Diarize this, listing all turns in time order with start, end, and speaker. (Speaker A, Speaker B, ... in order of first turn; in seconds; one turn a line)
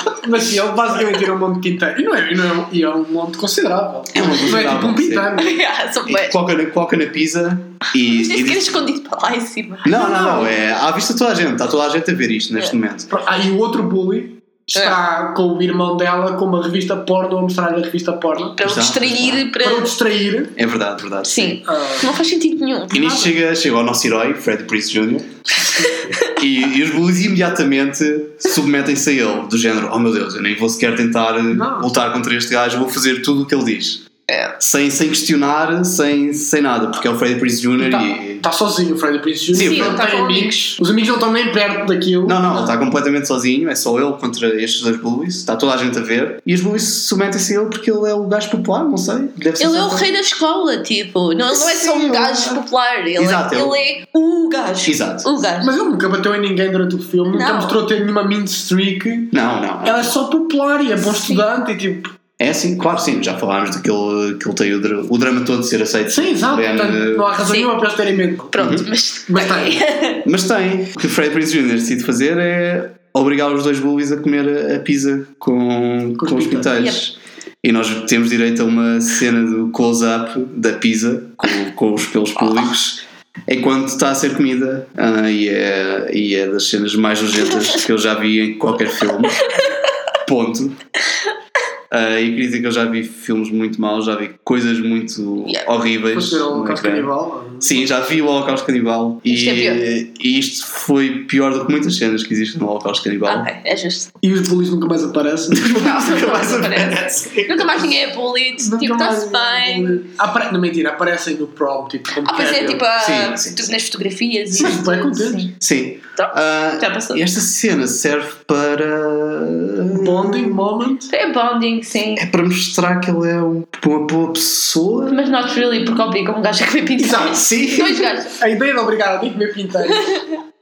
Speaker A: 0.2-5.6
Speaker B: 4.1-5.3
Speaker C: 5.4-6.4
Speaker B: 6.0-8.8
Speaker C: 8.0-10.5
Speaker B: 9.8-13.1
Speaker A: 9.9-10.4
Speaker A: 13.1-18.6
Speaker C: 18.6-19.9
Speaker B: 18.6-19.4
Speaker A: 19.6-20.5
Speaker B: 20.6-21.6
Speaker C: 21.2-23.3
Speaker A: 21.6-22.1
Speaker B: 22.9-25.3
Speaker A: 25.6-26.1
Speaker B: 26.3-34.0
Speaker A: 31.5-31.9
Speaker C: 34.3-34.5
Speaker B: 34.6-38.4
Speaker A: 37.8-42.4
Speaker B: 39.5-40.0
Speaker C: 39.5-40.8
Speaker B: 42.2-50.1
Speaker C: 49.6-55.7
Speaker B: 51.5-52.6
Speaker B: 53.2-53.8
Speaker B: 54.8-55.3
Speaker A: 55.6-62.1
Speaker C: 57.3-57.8
Speaker B: 59.3-60.1
Speaker C: 61.0-61.4
Speaker B: 62.4-67.3
Speaker A: 66.1-68.6
Speaker C: 67.5-67.7
Speaker C: 68.5-70.2
Speaker B: 68.6-68.9
Speaker A: 69.3-69.8
Speaker B: 70.2-89.5
Speaker A: 76.2-76.8
Speaker B: 90.2-90.8
Speaker B: 91.9-103.5
Speaker A: 96.1-97.9
Speaker C: 99.3-99.9
Speaker C: 103.2-104.1
Speaker A: 104.2-105.8
Speaker B: 105.5-107.9
Speaker C: 105.7-110.0
Speaker A: 108.6-112.8
Speaker C: 112.2-115.5
Speaker B: 113.0-113.7
Speaker A: 114.5-115.5
Speaker B: 115.6-120.7
Speaker C: 116.2-117.3
Speaker A: 119.9-121.1
Speaker C: 121.1-122.2
Speaker B: 122.2-125.3
Speaker C: 125.1-128.3
Speaker A: 127.0-130.2
Speaker B: 127.3-128.0